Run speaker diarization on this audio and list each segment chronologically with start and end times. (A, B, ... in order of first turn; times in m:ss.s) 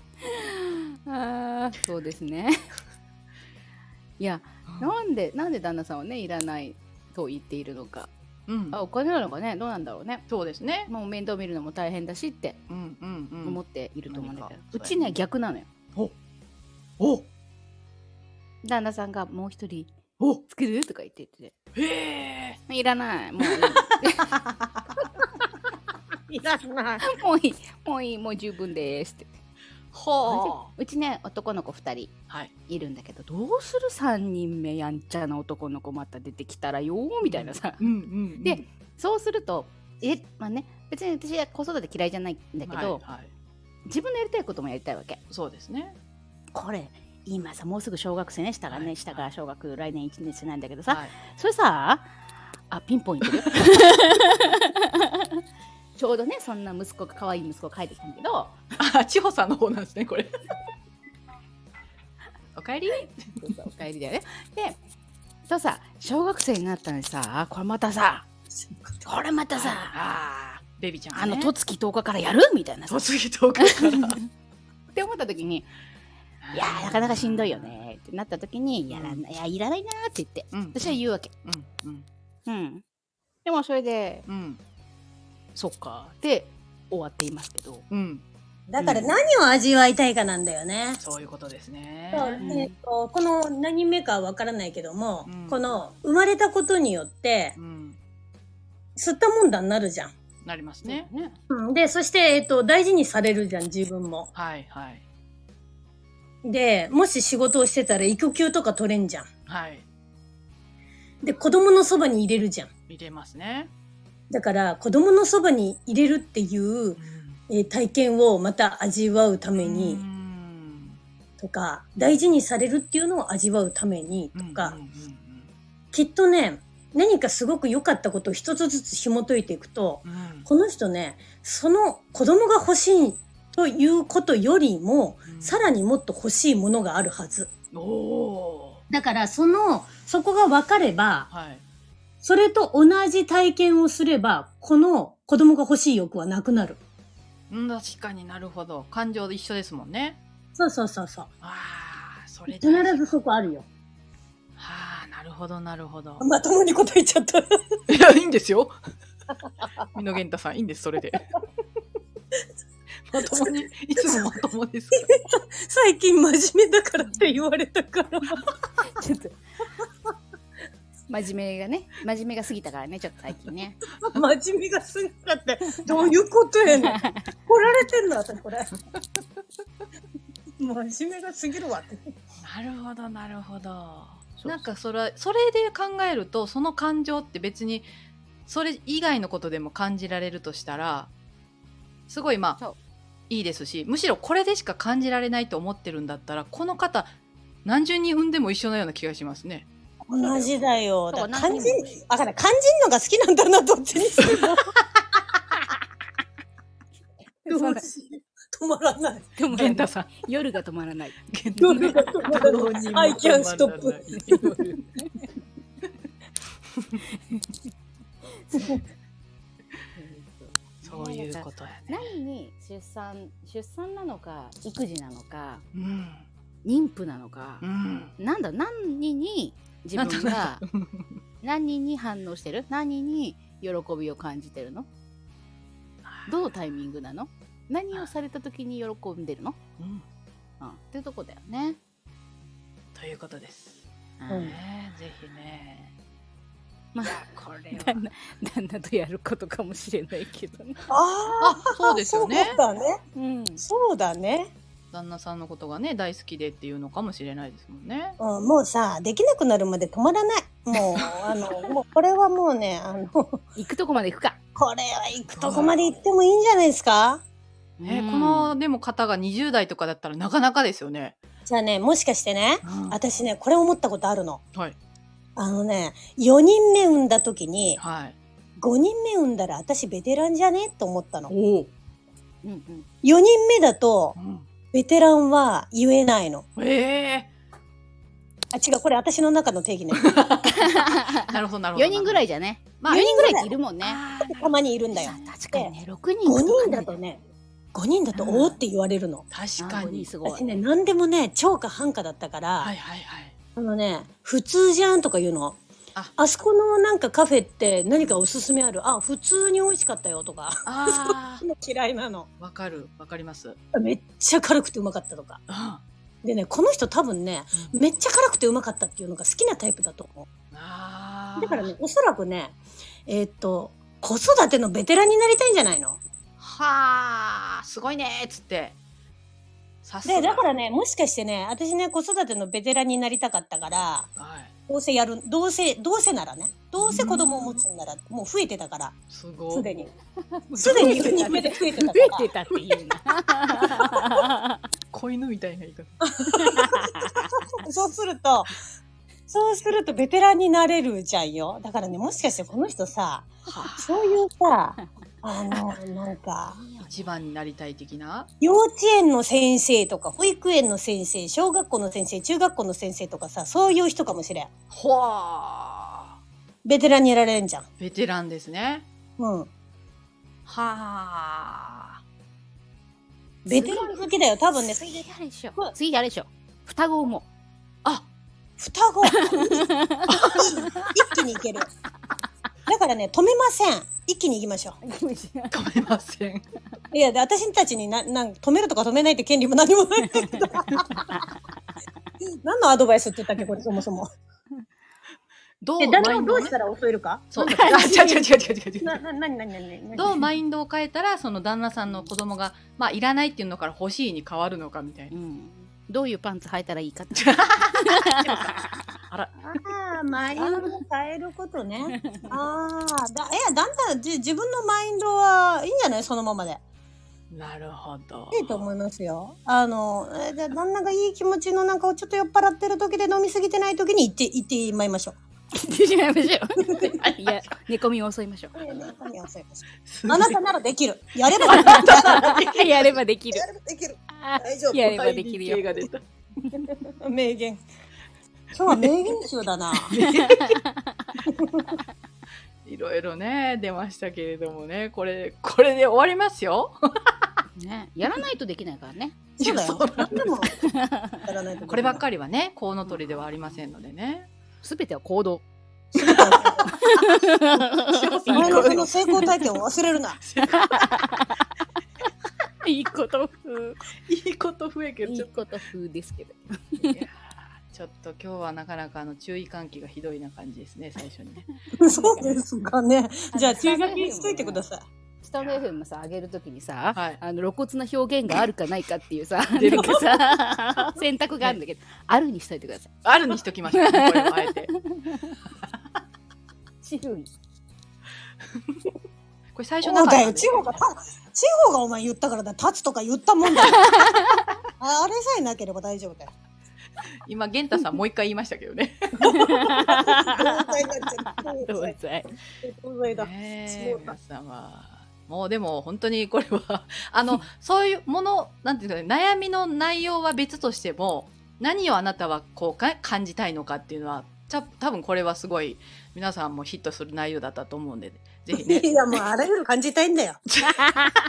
0:00.2-0:02.7 A
0:04.2-0:08.1 A
0:08.5-0:08.8 B
0:08.7-0:10.2 A
0:10.3-0:10.9 B
0:10.9-0:12.6 A
0:12.7-0:15.1 B
0:13.4-0:15.7 A
0:17.0-0:17.2 B
0:18.6-0:19.9 A
0:20.5-0:21.5 A
0:21.7-0:22.6 B
0:22.7-0:24.3 A
0:23.4-0:23.8 B
0:26.3-0:27.0 C
0:27.0-0:29.3 A
0:29.9-0:30.7 B
0:30.2-0:32.1 A
0:32.7-0:37.8 A
0:37.2-0:38.6 B
0:38.4-0:43.0 A
0:42.6-0:43.3 B
0:43.9-0:45.2 A
0:45.3-0:45.9 B
0:46.5-0:52.1 A
0:48.7-0:49.3 B
0:50.9-0:51.1 B
0:52.7-0:54.6 A
0:56.0-0:58.6 A
0:58.8-1:00.3 B
1:02.5-1:03.2 B
1:03.3-1:04.8 A
1:05.4-1:08.3 A
1:08.6-1:08.9 C
1:09.0-1:10.0 A
1:09.6-1:11.5 B
1:11.1-1:13.0 A
1:12.9-1:14.2 B
1:13.7-1:14.2 A
1:14.9-1:15.7 A
1:16.4-1:17.8 B
1:16.5-1:21.3 A
1:18.9-1:19.2 B
1:20.5-1:22.0 B
1:22.4-1:22.8 A
1:23.4-1:24.2 A
1:24.2-1:24.6 B
1:25.5-1:27.8 A
1:27.9-1:28.2 B
1:28.7-1:31.0 C
1:28.8-1:29.2 A
1:31.0-1:32.5 B
1:32.1-1:37.6 C
1:32.4-1:32.7 A
1:35.2-1:35.7 B
1:37.6-1:38.0 B
1:39.0-1:40.1 C
1:40.4-1:41.1 B
1:40.8-1:41.3 A
1:41.5-1:44.3 C
1:44.3-1:45.0 B
1:46.4-1:49.3 C
1:49.5-1:49.8 B
1:51.2-1:52.7 C
1:52.9-1:53.7 B
1:54.3-2:00.0 C
1:57.0-1:57.4 B
1:59.6-2:01.0 B
2:01.4-2:04.8 C
2:04.3-2:05.5 B
2:05.9-2:17.5 C
2:10.0-2:10.5 B
2:15.3-2:15.6 B
2:17.7-2:18.8 B
2:18.9-2:21.3 C
2:21.3-2:21.6 B
2:22.2-2:26.8 C
2:27.5-2:30.2 B
2:30.6-2:31.3 C
2:31.4-2:33.0 B
2:32.5-2:33.6 C
2:34.6-2:36.3 B
2:36.2-2:37.6 C
2:37.9-2:38.7 B
2:39.9-2:41.3 B
2:43.1-2:45.1 B
2:43.2-2:44.3 C
2:44.9-2:48.4 C
2:49.0-2:49.4 A
2:51.1-2:53.8 A
2:54.0-2:58.7 C
2:56.8-2:57.2 A
3:00.6-3:02.0 C
3:02.4-3:07.9 B
3:04.4-3:04.6 A
3:08.4-3:11.1 B
3:12.1-3:12.6 B
3:13.3-3:17.1 B
3:17.6-3:19.7 B
3:20.1-3:24.6 C
3:20.2-3:20.5 A
3:21.1-3:21.9 A
3:27.4-3:27.8 A
3:27.5-3:29.3 C
3:29.4-3:32.6 A
3:29.5-3:30.2 B
3:31.3-3:34.8 B
3:31.7-3:34.0 C
3:34.3-3:35.1 A
3:38.4-3:38.8 A
3:40.0-3:45.6 A
3:40.8-3:42.1 B
3:45.7-3:46.3 B
3:46.6-3:47.6 A
3:47.6-3:48.1 B
3:48.2-3:50.6 A
3:50.0-3:51.1 B
3:51.4-3:54.9 A
3:56.0-3:56.5 B
3:56.3-3:59.6 A
3:59.8-4:00.0 B
4:00.6-4:01.8 A
4:02.9-4:05.9 B
4:04.2-4:04.6 A
4:04.3-4:04.6 C
4:06.9-4:10.9 A
4:07.2-4:08.0 B
4:10.9-4:13.0 C
4:11.4-4:12.6 B
4:13.1-4:13.6 A
4:13.6-4:14.5 C
4:14.9-4:18.2 B
4:18.2-4:23.4 C
4:23.6-4:24.4 A
4:24.5-4:27.2 C
4:25.3-4:25.9 B
4:27.8-4:28.6 A
4:27.8-4:31.1 B
4:31.4-4:34.4 C
4:32.6-4:33.0 B
4:35.4-4:37.8 C
4:37.8-4:38.2 B
4:38.6-4:41.3 C
4:41.3-4:41.7 B
4:42.4-4:42.8 A
4:43.0-4:44.2 C
4:44.2-4:44.5 B
4:44.7-4:46.4 C
4:46.6-4:47.3 B
4:48.5-4:50.1 C
4:49.9-4:52.2 B
4:50.6-4:54.0 A
4:52.8-4:53.1 B
4:52.9-4:53.5 C
4:53.8-4:54.6 B
4:54.4-4:55.7 C
4:54.9-4:57.0 A
4:56.2-4:57.2 C
4:57.7-4:59.2 C
4:58.1-4:58.6 A
4:59.3-5:00.1 B
4:59.6-5:00.5 A
5:00.2-5:02.7 C
5:02.6-5:03.3 B
5:03.6-5:05.6 C
5:06.2-5:12.3 C
5:10.6-5:11.4 B
5:12.4-5:13.6 B
5:13.7-5:15.4 C
5:15.5-5:15.8 B
5:16.2-5:20.3 C
5:20.5-5:21.7 B
5:21.4-5:26.0 C
5:26.4-5:28.8 B
5:29.8-5:30.5 B
5:30.0-5:34.1 C
5:34.2-5:34.5 B
5:34.7-5:39.0 C
5:36.8-5:37.6 B
5:39.1-5:39.7 B
5:39.5-5:39.9 C
5:40.5-5:44.6 A
5:40.6-5:42.3 C
5:40.6-5:41.0 B
5:44.9-5:46.4 B
5:46.3-5:48.6 C
5:46.4-5:47.2 A
5:49.3-5:56.6 C
5:53.4-5:53.8 B
5:56.6-5:57.1 A
5:56.8-5:58.3 B
5:58.4-6:04.5 C
6:04.7-6:06.1 B
6:06.6-6:07.6 C
6:07.8-6:08.8 B
6:09.2-6:09.5 C
6:10.5-6:12.0 B
6:13.4-6:15.7 C
6:13.5-6:14.0 A
6:14.6-6:17.3 A
6:18.6-6:21.7 C
6:19.2-6:20.4 A
6:22.7-6:24.8 C
6:24.8-6:25.6 A
6:25.5-6:26.4 B
6:26.9-6:31.0 C
6:30.2-6:31.2 A
6:32.4-6:34.1 C
6:35.6-6:36.6 B
6:35.8-6:40.3 C
6:37.3-6:39.0 B
6:39.9-6:45.1 B
6:45.1-6:47.3 A
6:47.2-6:49.6 B
6:49.4-6:56.6 C
6:57.3-6:58.7 B
6:58.3-7:05.2 C
7:05.5-7:08.6 A
7:08.5-7:12.3 C
7:09.8-7:10.4 B
7:11.5-7:13.0 B
7:11.5-7:13.4 A
7:13.3-7:14.9 C
7:14.1-7:15.8 A
7:14.8-7:16.0 B
7:17.0-7:17.6 C
7:18.5-7:20.0 C
7:19.8-7:20.6 B
7:20.0-7:20.6 A
7:21.3-7:21.6 C
7:22.6-7:27.1 B
7:27.6-7:29.2 A
7:29.4-7:32.0 C
7:29.4-7:30.4 B
7:30.6-7:31.0 A
7:31.7-7:34.3 B
7:32.9-7:33.3 A
7:34.6-7:35.4 A
7:35.9-7:36.7 C
7:36.0-7:39.4 B
7:36.8-7:38.9 A
7:38.3-7:40.2 C
7:40.2-7:41.1 B
7:40.5-7:41.4 A
7:42.6-7:43.8 A
7:44.1-7:45.4 B
7:45.0-7:47.0 A
7:46.8-7:51.4 B
7:51.8-7:54.9 C
7:51.8-7:52.4 A
7:53.3-7:54.6 A
7:55.2-8:02.9 A
7:55.4-7:55.7 B
7:56.9-7:57.2 B
7:59.5-8:00.4 B
8:03.0-8:04.7 B
8:03.7-8:05.4 A
8:06.8-8:07.3 A
8:09.5-8:10.8 B
8:09.8-8:13.9 C
8:13.8-8:14.3 A
8:14.8-8:16.3 C
8:17.2-8:19.6 B
8:19.2-8:20.6 A
8:19.8-8:22.0 C
8:21.2-8:22.3 A
8:22.6-8:24.2 C
8:23.0-8:39.0 B
8:38.5-8:40.4 C
8:40.6-8:40.9 B
8:40.8-8:41.1 A